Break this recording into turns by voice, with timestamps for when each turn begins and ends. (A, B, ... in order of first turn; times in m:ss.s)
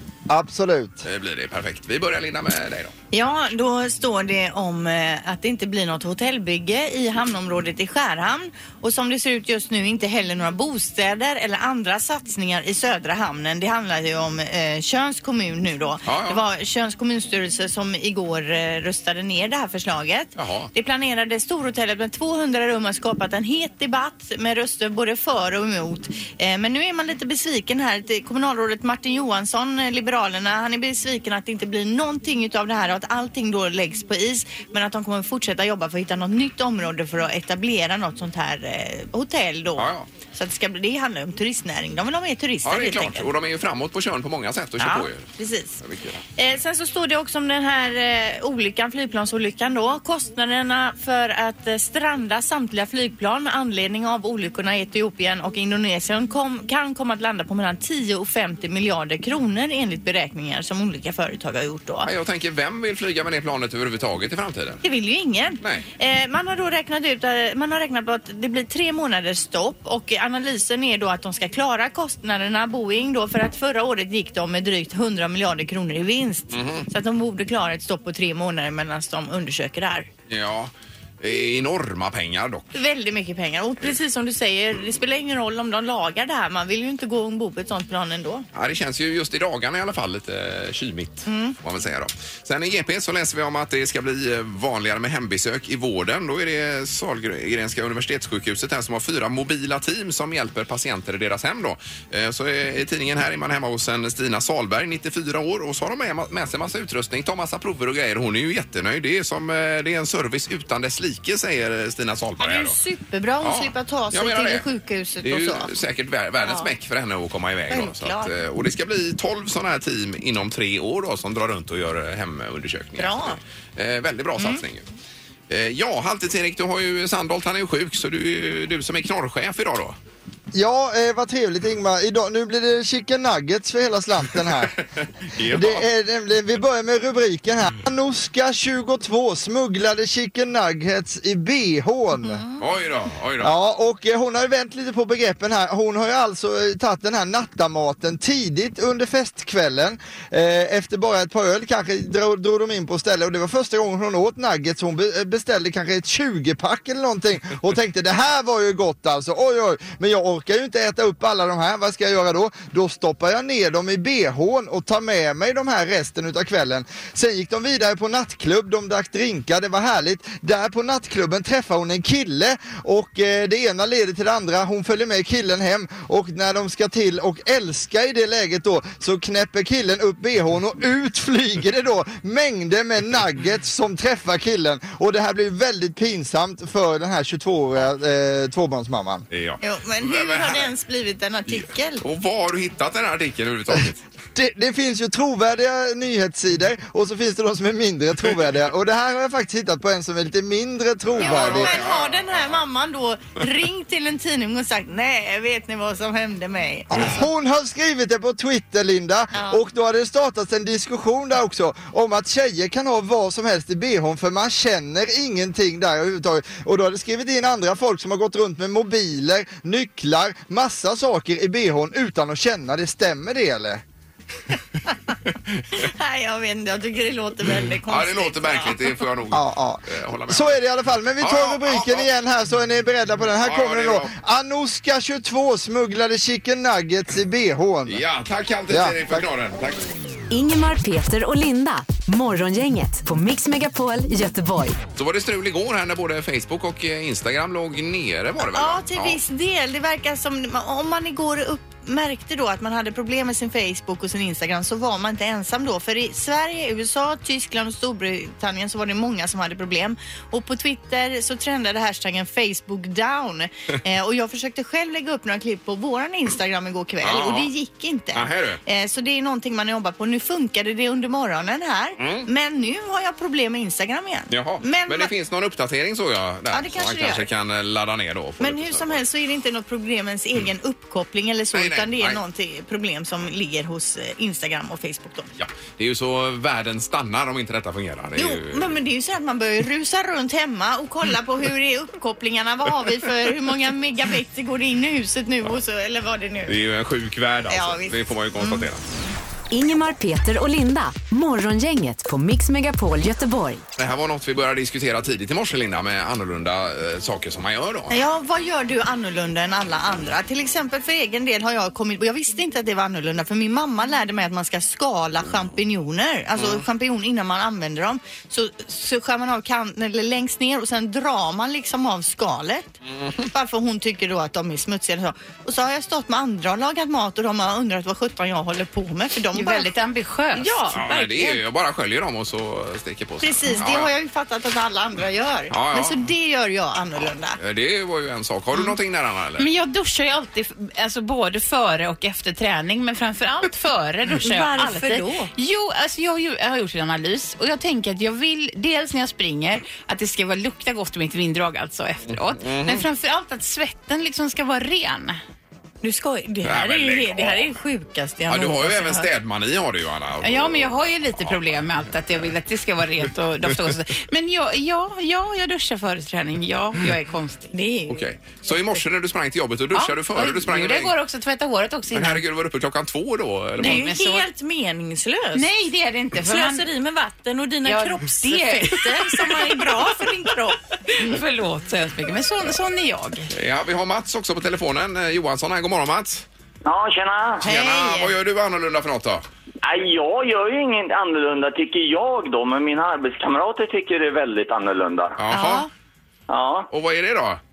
0:00.3-0:01.0 A
0:01.0-0:02.9 B
0:03.1-0:43.3 C
0:16.0-0:16.4 B
0:20.4-0:20.7 B
0:39.8-0:40.1 B
0:42.6-0:45.3 B
0:44.8-0:45.8 C
0:45.8-0:46.2 B
0:46.4-1:02.1 C
1:02.0-1:04.8 B
1:04.8-1:20.1 C
1:05.6-1:05.9 B
1:16.5-1:16.9 B
1:20.3-1:22.7 B
1:22.7-1:28.5 C
1:28.5-1:52.8 B
1:31.3-1:31.6 C
1:52.4-1:55.7 C
1:53.4-1:54.7 B
1:55.2-2:04.8 B
1:56.4-1:56.7 C
1:57.7-1:58.3 C
2:03.0-2:03.4 C
2:04.4-2:04.6 C
2:05.5-2:10.0 B
2:10.5-2:14.8 A
2:15.4-2:15.8 B
2:15.4-2:22.4 A
2:22.6-2:23.5 B
2:23.4-3:09.3 A
3:09.3-3:10.7 B
3:09.6-3:12.0 C
3:11.5-3:14.0 B
3:14.4-3:21.8 A
3:21.2-3:22.5 B
3:21.2-3:27.2 C
3:26.9-3:43.8 A
3:29.3-3:29.6 C
3:45.8-3:48.9 C
3:47.9-3:50.6 B
3:49.3-3:58.0 A
3:51.2-3:52.1 B
3:53.4-3:54.1 B
3:57.9-3:59.9 B
3:58.7-3:59.2 A
4:00.3-4:04.8 D
4:05.0-4:09.2 B
4:08.5-4:35.1 C
4:27.0-4:27.5 B
4:28.1-4:28.6 B
4:32.0-4:32.3 B
4:34.3-4:39.0 B
4:36.5-4:37.3 C
4:38.4-4:45.3 C
4:41.5-4:42.2 B
4:45.4-4:48.8 B
4:48.2-4:56.6 C
4:56.5-4:58.8 B
4:57.5-4:58.7 C
4:59.5-5:03.6 D
5:03.8-5:07.9 B
5:07.9-5:22.7 C
5:16.4-5:16.6 B
5:22.9-5:23.3 B
5:23.3-5:29.7 C
5:29.3-5:30.9 E
5:30.3-5:31.4 C
5:30.7-5:33.9 B
5:33.2-5:37.4 C
5:35.5-5:36.1 B
5:37.4-5:39.5 B
5:39.4-5:55.2 E
5:44.2-5:45.3 C
5:52.1-5:52.8 B
5:55.8-5:59.1 C
5:56.4-5:57.5 B
5:58.3-6:01.7 B
6:00.2-6:07.5 E
6:07.5-6:08.6 C
6:07.9-6:11.0 B
6:09.7-6:12.2 E
6:11.9-6:13.9 B
6:13.6-6:14.3 E
6:13.6-6:15.5 C
6:15.4-6:16.7 E
6:16.2-6:20.6 C
6:17.6-6:19.8 E
6:20.9-6:23.3 E
6:23.3-6:26.3 B
6:26.6-6:27.4 F
6:27.4-6:28.1 C
6:27.4-6:29.2 B
6:29.6-6:35.2 F
6:35.2-6:35.7 B
6:35.3-6:35.7 C
6:36.3-6:36.7 F
6:36.7-6:37.4 B